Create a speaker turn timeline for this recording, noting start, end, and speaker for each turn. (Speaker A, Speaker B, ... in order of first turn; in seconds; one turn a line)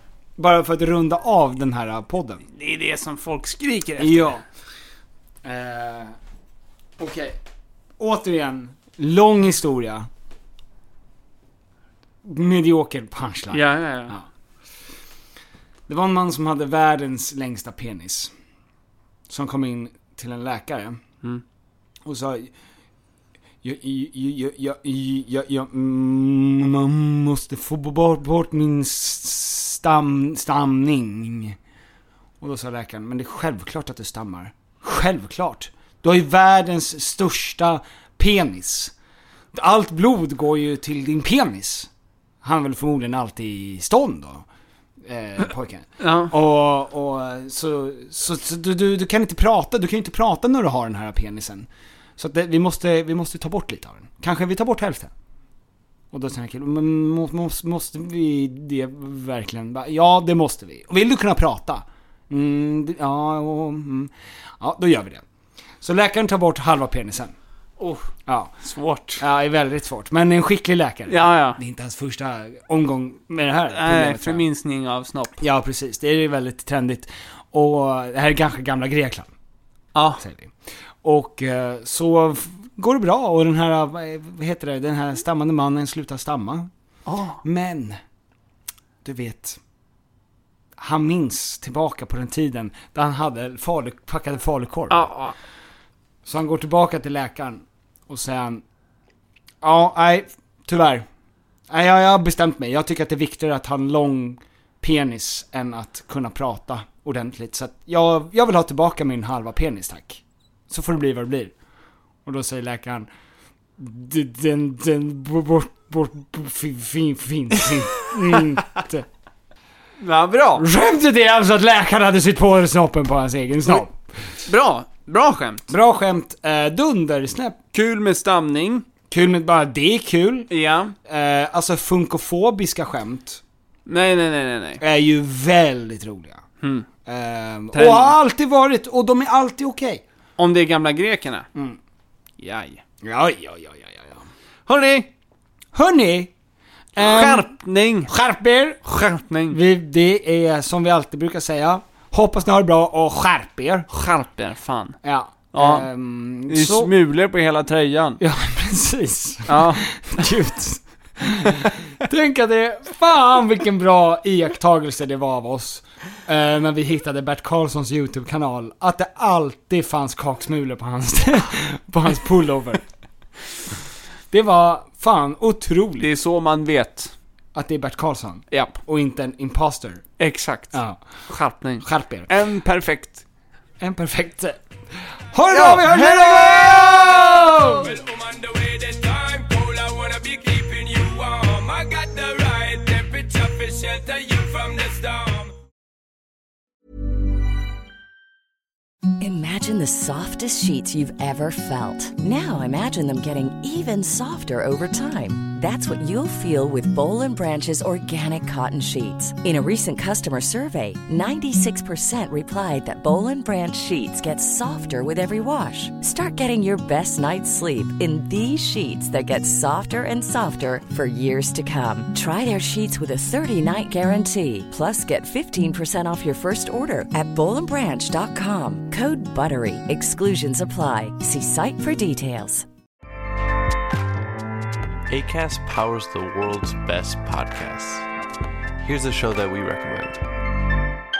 Speaker A: 0.4-2.4
Speaker B: 2.5-4.4
Speaker A: 4.0-4.4
Speaker A: 5.4-6.2
Speaker A: 7.0-7.4
Speaker A: 8.0-10.1
Speaker A: 12.2-14.2
Speaker B: 13.5-14.2
Speaker A: 15.9-18.3
Speaker A: 19.3-21.0
Speaker A: 22.1-22.5
Speaker A: 23.6-31.6
Speaker A: 32.4-38.9
Speaker A: 39.5-41.9
Speaker A: 42.4-44.4
Speaker A: 45.0-55.1
Speaker B: 46.0-46.3
Speaker A: 56.1-65.2
Speaker A: 65.8-67.3
Speaker B: 67.8-69.2
Speaker A: 68.3-68.5
Speaker A: 69.2-74.4
Speaker B: 71.1-71.6
Speaker B: 73.7-75.4
Speaker A: 75.4-79.3
Speaker B: 79.9-80.2
Speaker A: 80.2-86.7
Speaker B: 87.0-87.4
Speaker A: 87.4-88.0
Speaker A: 89.0-89.6
Speaker A: 90.8-95.1
Speaker B: 94.9-95.3
Speaker A: 96.2-98.6
Speaker A: 99.6-101.0
Speaker A: 101.7-111.5
Speaker A: 112.2-113.1
Speaker A: 113.8-119.0
Speaker B: 120.0-120.7
Speaker A: 120.6-123.9
Speaker B: 124.4-125.7
Speaker A: 125.7-127.6
Speaker B: 127.7-128.8
Speaker A: 129.1-130.5
Speaker B: 130.5-130.9
Speaker A: 131.1-133.4
Speaker B: 133.9-134.8
Speaker A: 134.8-136.4
Speaker B: 136.6-136.9
Speaker A: 137.1-140.0
Speaker B: 137.7-138.2
Speaker B: 140.4-141.5
Speaker B: 142.4-142.8
Speaker A: 143.0-144.2
Speaker B: 144.7-145.1
Speaker A: 145.7-146.3
Speaker A: 146.9-147.5
Speaker B: 147.0-148.1
Speaker A: 148.1-148.8
Speaker B: 148.8-149.6
Speaker A: 149.5-153.9
Speaker B: 153.9-155.0
Speaker A: 155.0-156.9
Speaker B: 155.5-155.9
Speaker B: 156.5-158.2
Speaker A: 158.2-172.8
Speaker B: 159.5-159.9
Speaker A: 174.3-176.1
Speaker B: 176.0-177.1
Speaker A: 177.5-180.0
Speaker B: 178.5-178.8
Speaker B: 180.2-183.2
Speaker A: 180.7-181.0
Speaker A: 181.8-182.3
Speaker A: 183.8-184.6
Speaker A: 185.3-187.9
Speaker B: 185.5-186.9
Speaker C: 187.8-195.5
Speaker D: 199.2-232.7
Speaker E: 235.1-238.1
Speaker E: 238.8-240.2